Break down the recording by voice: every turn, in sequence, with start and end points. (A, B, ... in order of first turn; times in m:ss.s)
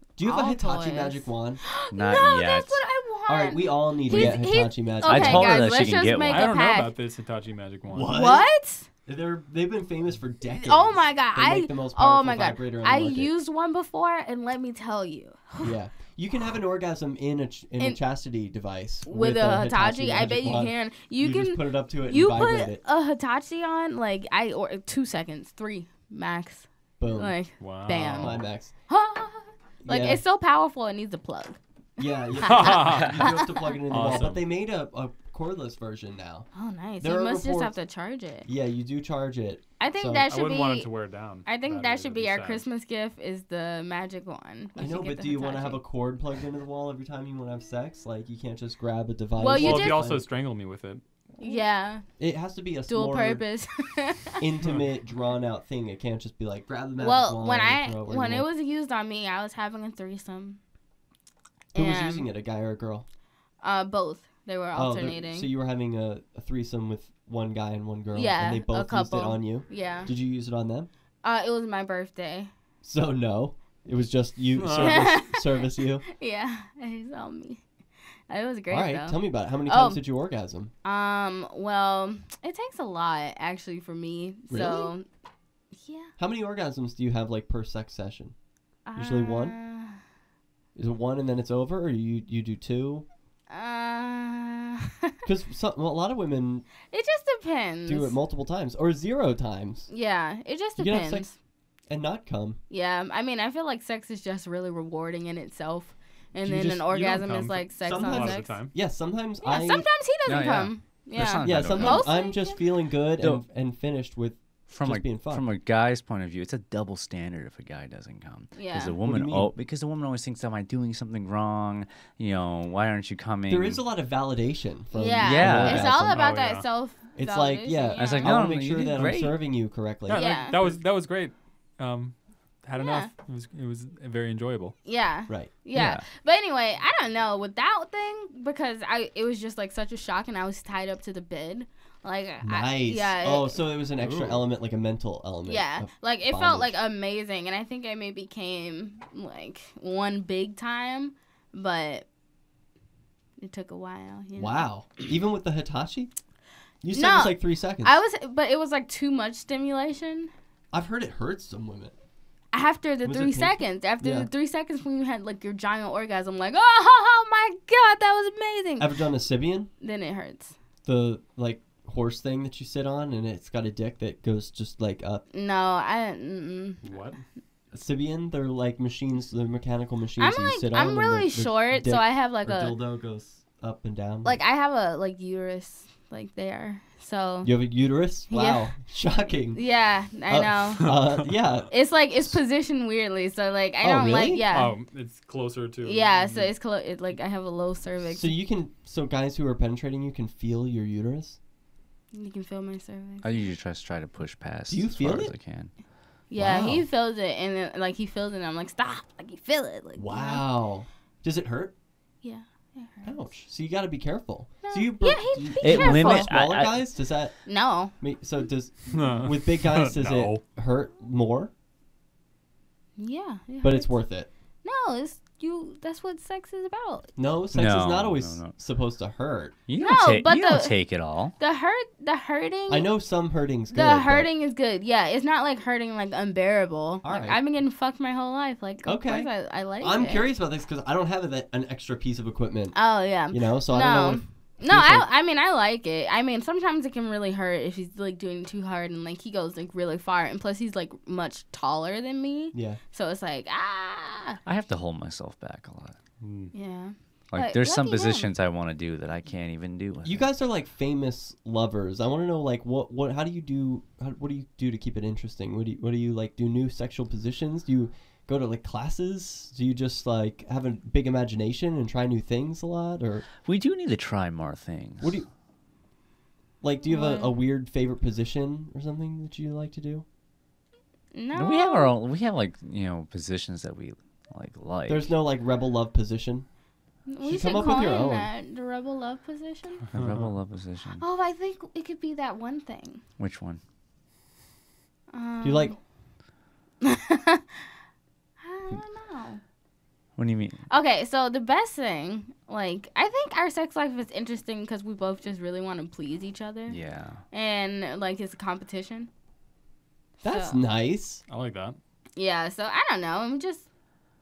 0:00.2-0:01.6 A
0:00.2-0:06.9 B
0:01.9-0:02.8 C
0:03.3-0:05.6 A
0:04.1-0:06.6 C
0:06.3-0:08.1 D
0:07.9-0:08.5 A
0:08.0-0:08.9 B
0:09.1-0:13.3 A
0:10.6-0:15.8 B
0:15.6-0:22.8 A
0:19.1-0:34.1 B
0:27.0-0:27.4 A
0:27.6-0:28.5 D
0:27.9-0:28.7 A
0:29.8-0:30.2 A
0:32.0-0:37.8 A
0:32.4-0:33.3 D
0:33.9-0:34.4 D
0:36.5-0:38.5 B
0:38.5-0:40.3 A
0:39.8-0:45.8 B
0:40.3-0:42.7 D
0:44.8-0:50.3 A
0:49.4-0:50.1 B
0:49.5-0:51.0 D
0:51.4-0:52.2 B
0:52.2-0:53.4 A
0:52.9-0:54.4 B
0:54.4-0:58.5 A
0:57.0-1:00.6 B
1:01.7-1:02.3 B
1:01.8-1:03.1 A
1:03.6-1:05.5 B
1:04.7-1:10.9 A
1:08.1-1:10.1 B
1:11.2-1:12.5 B
1:12.8-1:16.0 A
1:14.6-1:15.1 D
1:14.7-1:15.5 B
1:16.1-1:17.6 B
1:18.3-1:20.0 B
1:18.7-1:20.7 A
1:20.8-1:25.1 B
1:24.5-1:24.9 A
1:25.7-1:26.1 B
1:26.2-1:28.4 A
1:28.9-1:30.0 B
1:29.0-1:29.6 A
1:30.8-1:33.1 A
1:33.5-1:35.1 B
1:35.2-1:36.7 A
1:36.9-1:38.2 B
1:37.9-1:39.9 A
1:39.9-1:41.4 B
1:40.8-1:41.3 A
1:41.9-1:42.6 A
1:42.7-1:48.7 B
1:46.4-1:46.9 A
1:46.9-1:48.7 D
1:47.8-1:49.9 A
1:49.4-1:52.6 B
1:50.2-1:52.2 C
1:51.4-1:55.5 A
1:54.7-2:03.8 C
1:58.5-1:59.0 B
1:59.0-1:59.5 A
2:03.5-2:06.2 A
2:04.9-2:08.3 B
2:05.2-2:06.2 C
2:06.0-2:06.7 D
2:07.2-2:10.8 A
2:08.0-2:09.4 C
2:10.1-2:14.8 D
2:10.1-2:10.6 B
2:12.8-2:13.1 B
2:14.8-2:23.7 B
2:15.3-2:15.9 A
2:15.8-2:16.0 C
2:22.4-2:26.8 A
2:24.0-2:24.5 C
2:25.5-2:32.1 B
2:33.4-2:34.7 B
2:34.4-2:36.1 A
2:36.8-2:38.0 A
2:36.9-2:40.3 B
2:40.7-2:42.0 A
2:42.5-2:49.0 B
2:43.0-2:44.3 A
2:48.8-2:49.7 A
2:49.8-2:50.6 B
2:50.8-2:55.2 A
2:55.3-2:56.9 B
2:56.8-2:57.2 D
2:57.7-3:04.4 A
3:00.2-3:02.8 B
3:04.2-3:07.7 B
3:07.4-3:09.7 A
3:08.3-3:08.7 B
3:09.5-3:11.2 B
3:10.2-3:12.4 A
3:10.8-3:11.7 D
3:11.7-3:14.8 B
3:13.8-3:14.5 A
3:14.5-3:16.5 D
3:15.8-3:18.4 B
3:18.1-3:21.4 A
3:22.1-3:23.4 B
3:23.2-3:25.7 C
3:24.7-3:25.4 A
3:26.3-3:30.4 B
3:26.4-3:26.8 A
3:30.0-3:31.7 A
3:32.2-3:33.1 B
3:33.0-3:41.5 A
3:34.6-3:36.4 B
3:35.6-3:36.9 C
3:37.4-3:38.0 B
3:38.9-3:40.4 D
3:43.0-3:47.1 B
3:43.6-3:44.3 A
3:47.2-3:49.6 A
3:47.5-3:48.6 C
3:49.7-3:51.4 C
3:49.8-3:53.0 B
3:52.7-3:54.3 A
3:53.7-4:00.3 B
3:57.0-3:57.4 A
3:58.8-4:05.1 A
4:02.7-4:14.4 B
4:12.5-4:12.8 A
4:14.4-4:16.0 C
4:16.2-4:16.5 D
4:16.5-4:18.3 B
4:17.3-4:20.3 C
4:20.0-4:33.3 A
4:33.4-4:35.2 C
4:35.0-4:35.3 A
4:36.6-4:40.0 A
4:36.9-4:37.4 B
4:41.1-4:42.0 B
4:41.4-4:45.2 C
4:44.9-4:46.5 A
4:47.1-4:49.9 B
4:47.2-4:48.3 A
4:49.9-4:51.0 C
4:49.9-4:50.3 D
4:51.0-4:53.0 B
4:53.2-4:53.6 C
4:55.1-4:55.8 B
4:55.4-4:55.8 A
4:56.8-4:57.7 B
4:58.4-4:59.4 B
5:00.2-5:00.6 C
5:00.7-5:09.1 B
5:06.7-5:07.2 C
5:10.2-5:11.2 A
5:10.3-5:10.6 B
5:11.3-5:11.8 D
5:12.2-5:13.7 B